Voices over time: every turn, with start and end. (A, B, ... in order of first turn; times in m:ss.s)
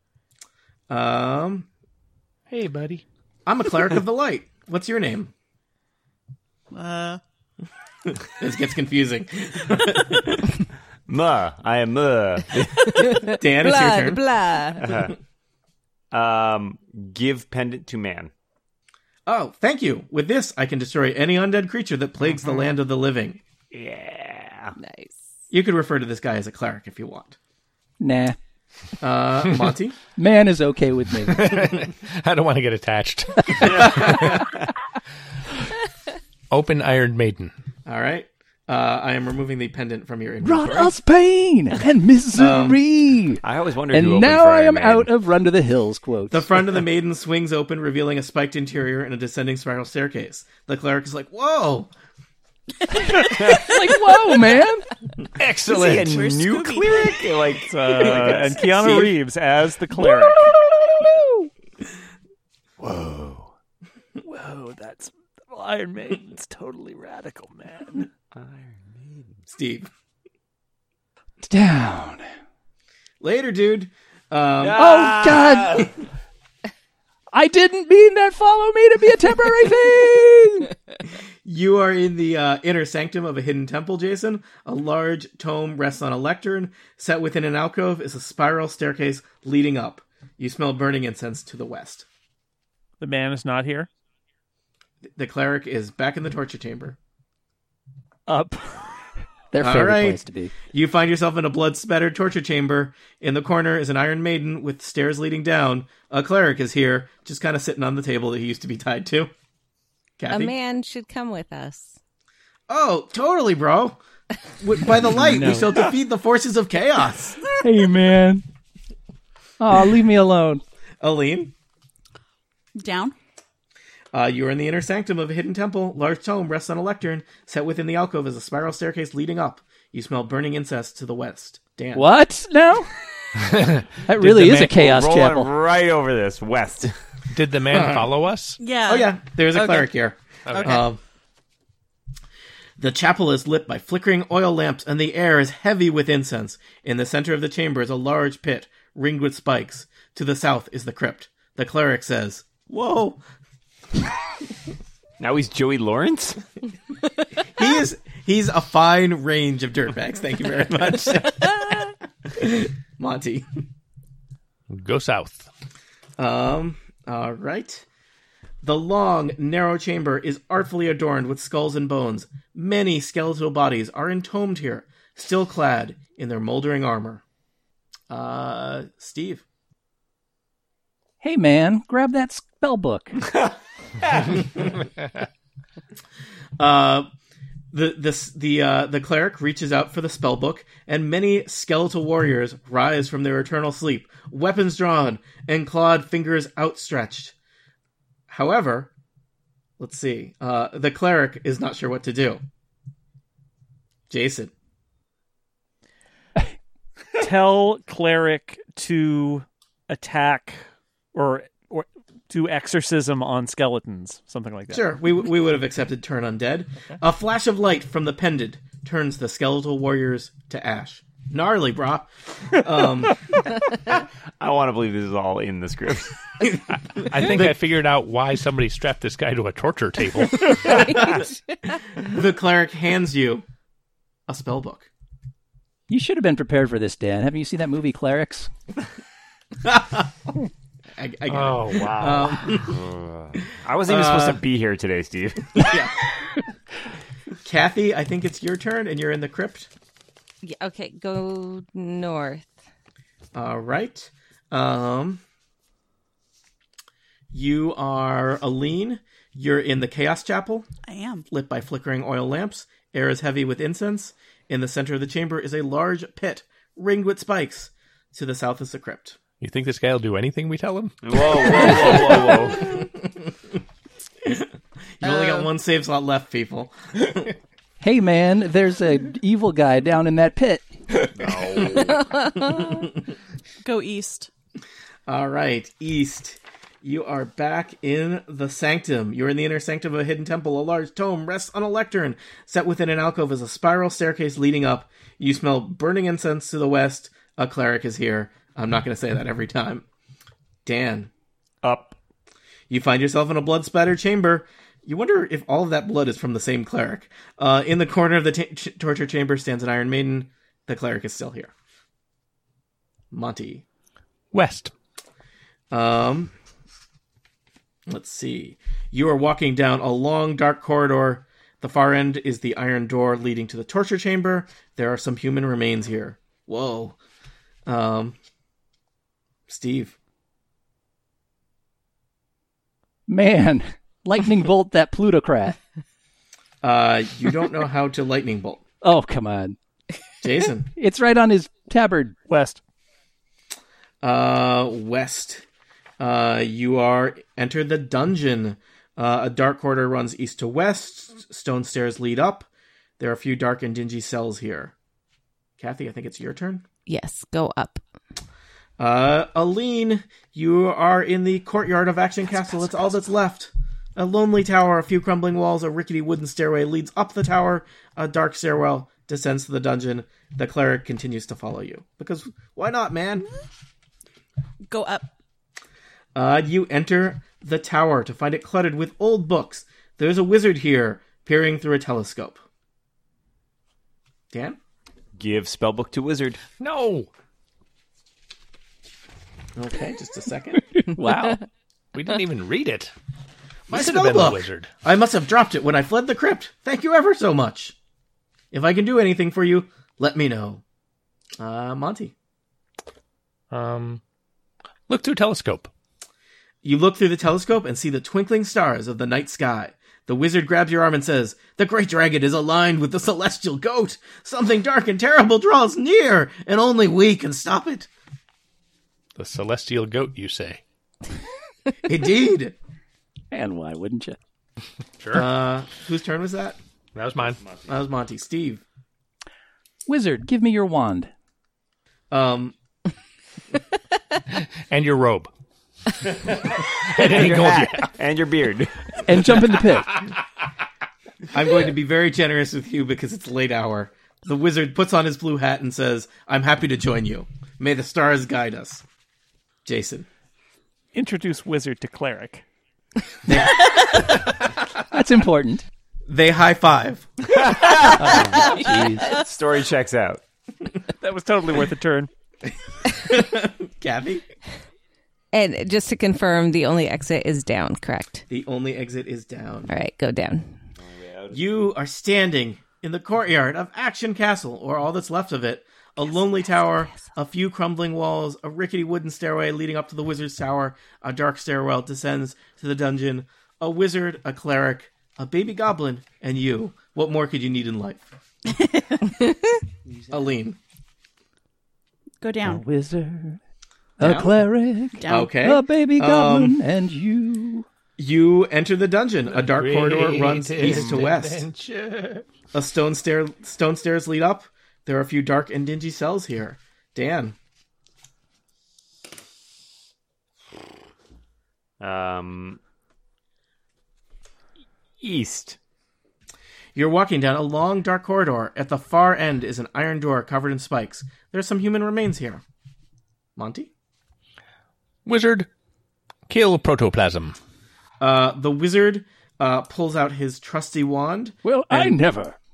0:00.9-0:01.7 A
0:02.5-0:03.0 B
0:03.4-0:05.3 A
0:06.7-0:07.2 C
0:08.1-0:10.5 A
0:11.1-0:13.1 D
0:13.0-0:15.0 E
0:13.1-0:14.2 A
0:14.8-0:15.1 D
0:16.1-0:18.3 D
0:19.2-0:23.4 A
0:23.7-0:24.8 D
0:24.8-0:25.2 E
0:25.5-0:27.4 A
0:28.0-0:28.4 F
0:29.0-0:30.0 A
0:30.2-0:31.8 F
0:31.3-0:34.5 B
0:33.6-0:34.6 D
0:36.5-0:37.5 B
0:37.8-0:40.9 A
0:40.4-0:43.4 F
0:42.3-0:42.8 A
0:43.4-0:45.1 D
0:43.9-0:46.5 F
0:46.3-0:51.9 A
0:53.2-0:54.9 F
0:53.3-0:53.7 D
0:55.4-0:56.2 B
0:55.6-0:59.0 D
0:55.6-0:57.4 C
0:57.7-1:00.6 G
0:58.0-0:59.1 A
1:02.8-1:03.5 D
1:04.2-1:08.1 G
1:08.3-1:09.4 D
1:09.5-1:09.9 A
1:11.4-1:12.3 F
1:13.2-1:15.0 A
1:14.6-1:15.9 D
1:14.8-1:15.9 F
1:17.3-1:20.7 F
1:21.4-1:32.0 A
1:33.0-1:33.9 G
1:35.1-1:37.0 A
1:38.3-1:39.1 G
1:39.5-1:40.5 F
1:39.6-1:49.3 A
1:50.2-1:50.5 A
1:50.3-1:52.0 E
1:52.7-1:54.0 A
1:54.6-1:57.4 A
1:55.0-1:55.7 F
1:57.6-1:58.4 F
1:59.6-2:00.6 F
2:01.0-2:01.5 A
2:02.8-2:03.2 C
2:04.1-2:12.1 A
2:11.9-2:12.9 F
2:13.4-2:14.6 B
2:14.0-2:15.5 F
2:14.5-2:16.9 D
2:17.3-2:18.6 B
2:17.7-2:18.1 A
2:18.6-2:19.9 C
2:18.9-2:21.0 A
2:20.4-2:20.7 B
2:20.5-2:20.8 C
2:22.8-2:33.2 A
2:35.2-2:36.4 D
2:37.4-2:43.5 A
2:44.7-2:45.5 B
2:46.2-2:47.8 A
2:48.6-2:57.2 A
2:58.1-2:59.4 A
3:01.2-3:03.2 F
3:06.6-3:07.1 A
3:07.7-3:17.3 A
3:18.3-3:18.9 A
3:19.8-3:22.4 A
3:24.1-3:24.5 A
3:27.2-3:30.6 G
3:31.1-3:34.8 G
3:34.7-3:43.4 A
3:44.4-3:46.2 D
3:46.9-3:50.7 B
3:47.2-3:47.6 A
3:50.6-3:51.2 A
3:50.6-3:51.8 E
3:52.0-3:53.4 A
3:54.3-3:54.9 A
3:55.9-3:58.5 F
3:59.6-4:00.1 A
4:01.0-4:02.8 A
4:01.3-4:02.3 B
4:02.4-4:05.8 D
4:03.8-4:04.4 A
4:05.5-4:06.1 A
4:07.4-4:09.7 A
4:10.4-4:12.5 E
4:13.3-4:15.2 A
4:17.3-4:20.7 A
4:20.8-4:21.2 C
4:21.3-4:29.2 A
4:29.4-4:31.6 B
4:31.0-4:32.8 D
4:31.7-4:33.2 A
4:34.2-4:34.5 A
4:35.0-4:37.3 A
4:37.8-4:40.6 F
4:41.2-4:42.0 D
4:41.9-4:42.8 E
4:42.6-4:42.8 A
4:43.6-4:44.3 C
4:45.1-4:59.8 A
5:00.6-5:01.1 A
5:01.6-5:02.0 D
5:02.7-5:11.5 A
5:13.1-5:13.6 A
5:14.3-5:14.7 B
5:15.7-5:16.3 A
5:17.9-5:27.0 A
5:27.6-5:28.2 A
5:29.5-5:29.9 A
5:33.1-5:35.6 F
5:36.6-5:38.6 A
5:38.8-5:39.6 F
5:40.2-5:40.7 A
5:40.8-5:42.2 F
5:42.3-5:42.6 G
5:44.0-5:45.4 A
5:46.0-5:52.5 A
5:53.0-5:54.7 A
5:55.6-5:56.6 A
5:56.9-5:57.8 E
5:58.8-6:13.3 A
6:14.7-6:15.1 C
6:16.1-6:22.4 A
6:24.3-6:24.6 A
6:25.2-6:26.4 D
6:26.6-6:27.1 B
6:29.6-6:30.6 A
6:30.9-6:31.4 F
6:31.9-6:32.9 B
6:33.7-6:37.7 A
6:33.7-6:34.7 B
6:38.5-6:40.6 A
6:41.4-6:42.1 A
6:43.5-6:44.0 B
6:44.9-6:45.7 B
6:46.6-6:57.9 A
6:59.2-7:00.6 B
7:01.8-7:02.6 A
7:03.3-7:04.2 F
7:05.0-7:05.3 B
7:05.1-7:06.6 A
7:06.9-7:07.4 B
7:07.3-7:07.7 D
7:07.7-7:08.6 A
7:09.9-7:11.1 F
7:12.1-7:12.5 A
7:14.3-7:15.3 B
7:16.3-7:19.0 D
7:16.7-7:17.9 B
7:19.0-7:20.0 F
7:21.3-7:28.8 A
7:29.6-7:30.1 A
7:30.9-7:32.4 G
7:33.2-7:34.0 A
7:34.9-7:35.6 F
7:36.1-7:37.3 A
7:37.3-7:40.2 D
7:37.9-7:39.1 F
7:38.6-7:38.8 C
7:41.0-7:42.1 G
7:42.9-7:44.2 A
7:45.3-7:48.2 E
7:48.3-7:49.7 A
7:49.7-7:50.6 E
7:50.8-7:51.4 D
7:51.3-8:08.1 A
7:56.6-7:57.1 E
8:08.4-8:09.1 C
8:10.1-8:10.6 A
8:12.2-8:12.6 C
8:12.4-8:13.4 F
8:14.0-8:17.6 F
8:14.0-8:14.3 A
8:15.0-8:15.4 C
8:15.1-8:16.6 A
8:18.0-8:21.5 A
8:19.3-8:22.3 B
8:22.5-8:27.4 A
8:31.8-8:32.6 D
8:35.0-8:35.6 D
8:36.7-8:42.4 A
8:43.4-8:43.7 A
8:45.0-8:45.5 B
8:46.3-8:47.4 B
8:48.0-8:51.4 A
8:51.4-8:52.4 F